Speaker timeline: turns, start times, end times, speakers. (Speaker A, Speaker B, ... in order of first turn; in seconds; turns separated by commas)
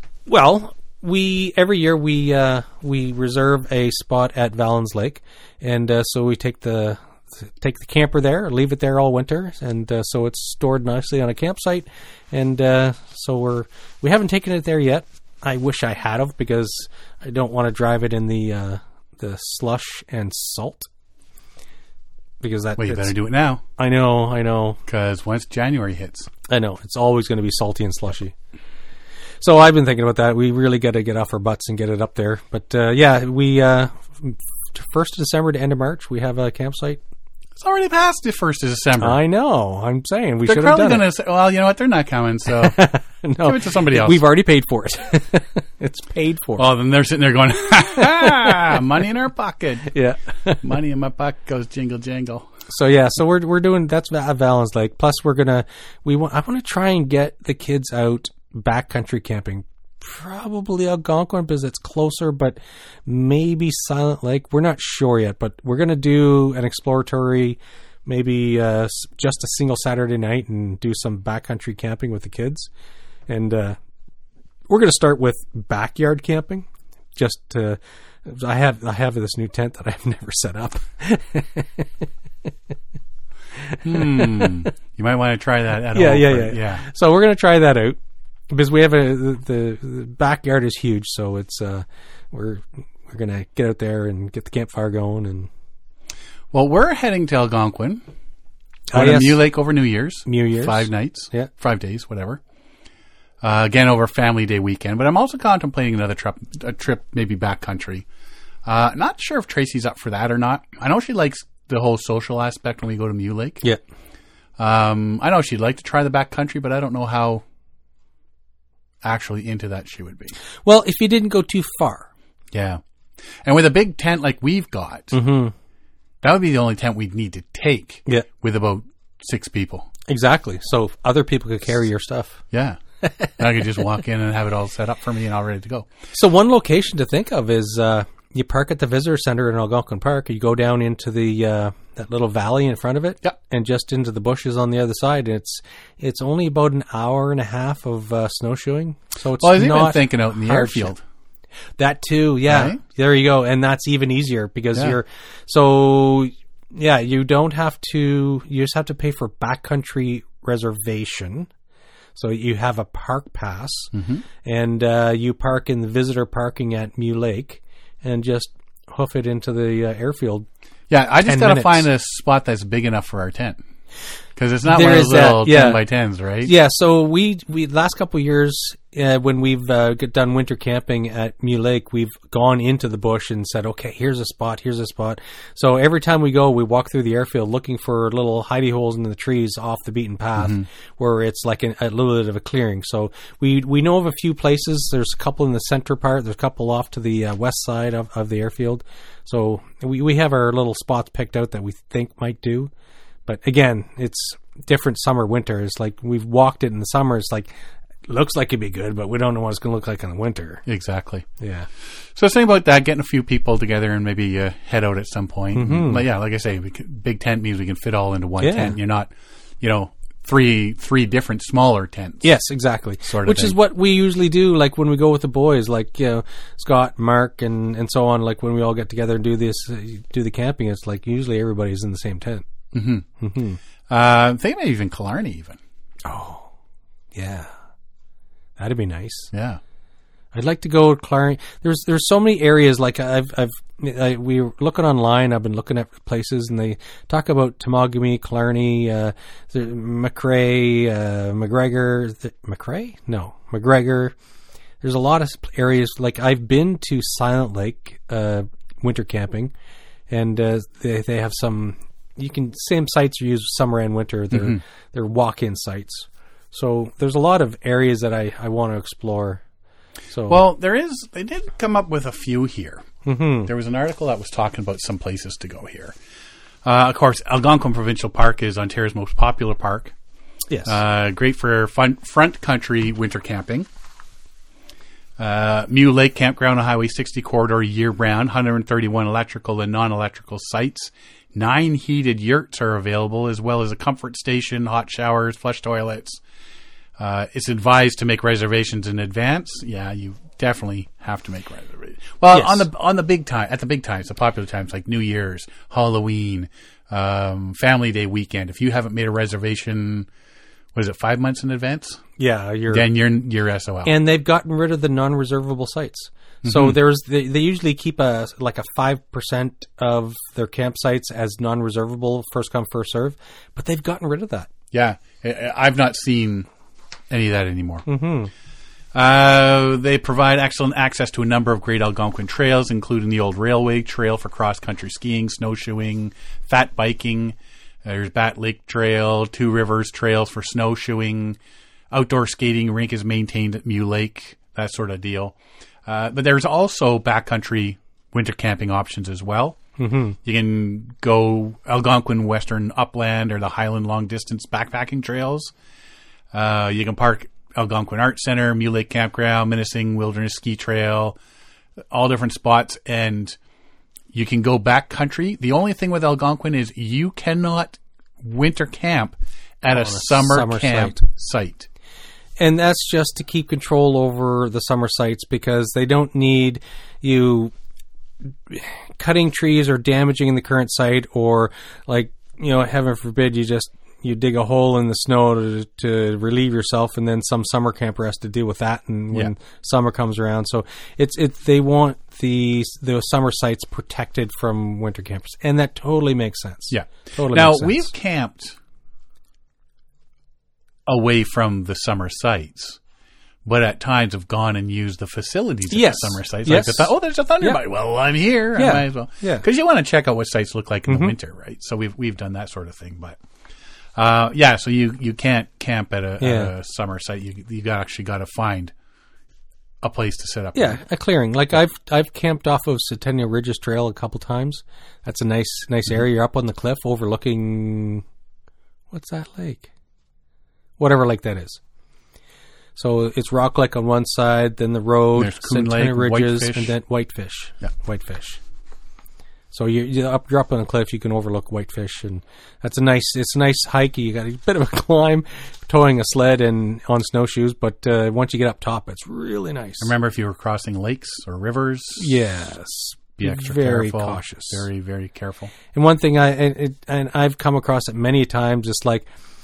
Speaker A: 0.3-20.9, Speaker A: 22.4-23.2, Speaker B: 22.8-23.6, Speaker A: 23.8-24.8, Speaker B: 24.9-26.3, Speaker A: 26.5-28.3, Speaker A: 29.4-37.0, Speaker B: 37.6-39.2, Speaker A: 39.0-41.1, Speaker B: 40.5-42.9, Speaker A: 42.6-46.7, Speaker B: 43.4-44.2, Speaker B: 46.6-50.0, Speaker A: 49.9-50.6, Speaker B: 50.6-52.5, Speaker A: 52.7-72.7, Speaker A: 73.3-73.8, Speaker A: 74.7-81.9, Speaker A: 83.6-84.6, Speaker B: 83.8-86.8, Speaker A: 85.9-88.0, Speaker A: 88.5-95.5, Speaker B: 96.5-98.0, Speaker A: 98.9-99.4, Speaker B: 98.9-102.4, Speaker A: 100.3-101.5, Speaker B: 103.4-108.1, Speaker B: 108.7-113.6, Speaker B: 114.6-117.4, Speaker B: 119.0-120.4, Speaker A: 120.7-122.1, Speaker B: 122.5-122.8, Speaker B: 123.4-125.1, Speaker A: 125.1-125.5, Speaker B: 126.2-129.9, Speaker A: 130.1-132.4, Speaker B: 132.5-132.8, Speaker B: 133.4-135.9, Speaker A: 136.1-150.9, Speaker B: 149.4-151.0, Speaker A: 151.8-161.5, Speaker B: 152.5-152.8, Speaker A: 162.2-170.5, Speaker B: 163.9-164.2, Speaker B: 170.9-173.6, Speaker A: 171.2-171.9, Speaker B: 174.4-176.5, Speaker A: 174.7-175.8, Speaker A: 176.4-202.7, Speaker B: 190.4-190.7, Speaker A: 203.3-207.5, Speaker A: 208.1-210.6, Speaker B: 210.7-211.3, Speaker A: 211.4-211.7, Speaker B: 212.2-222.3, Speaker A: 215.6-216.1, Speaker A: 218.4-218.8, Speaker A: 222.2-232.5, Speaker B: 223.1-223.6, Speaker B: 232.7-233.1, Speaker A: 233.2-233.6, Speaker B: 233.9-235.6, Speaker A: 236.1-236.5, Speaker A: 237.2-237.5, Speaker A: 238.6-239.3, Speaker B: 239.3-239.6, Speaker A: 240.3-254.2, Speaker A: 254.8-259.5, Speaker A: 260.1-269.4, Speaker B: 264.3-264.6, Speaker A: 270.1-270.4, Speaker B: 270.3-272.9, Speaker A: 273.1-273.5, Speaker B: 273.5-276.0, Speaker B: 276.6-279.9, Speaker A: 280.5-280.8, Speaker B: 280.7-283.7, Speaker B: 285.2-296.2, Speaker B: 297.0-310.1, Speaker A: 302.3-302.6, Speaker B: 310.8-312.0, Speaker A: 312.2-312.9, Speaker B: 312.7-313.9, Speaker A: 313.9-324.5, Speaker B: 316.4-316.8, Speaker B: 324.7-326.5, Speaker B: 327.1-327.8, Speaker A: 327.9-328.3, Speaker B: 328.9-341.4, Speaker B: 341.9-349.6, Speaker A: 349.8-350.2, Speaker B: 350.2-355.5, Speaker B: 356.3-361.2, Speaker B: 361.9-363.4, Speaker B: 364.1-371.7, Speaker A: 369.7-371.0, Speaker A: 372.4-377.5, Speaker A: 378.5-397.9, Speaker B: 396.7-398.6, Speaker B: 400.9-402.8, Speaker B: 403.4-413.2, Speaker A: 405.7-407.6, Speaker A: 408.6-409.4, Speaker A: 410.9-411.1, Speaker B: 414.0-418.7, Speaker A: 416.2-416.5, Speaker B: 419.8-420.8, Speaker A: 420.6-428.1, Speaker A: 428.9-429.7, Speaker A: 430.8-431.6, Speaker A: 432.8-438.4, Speaker B: 435.2-436.7, Speaker A: 439.5-449.9, Speaker B: 449.8-452.1, Speaker A: 452.0-454.7, Speaker B: 453.2-455.5, Speaker A: 455.7-459.1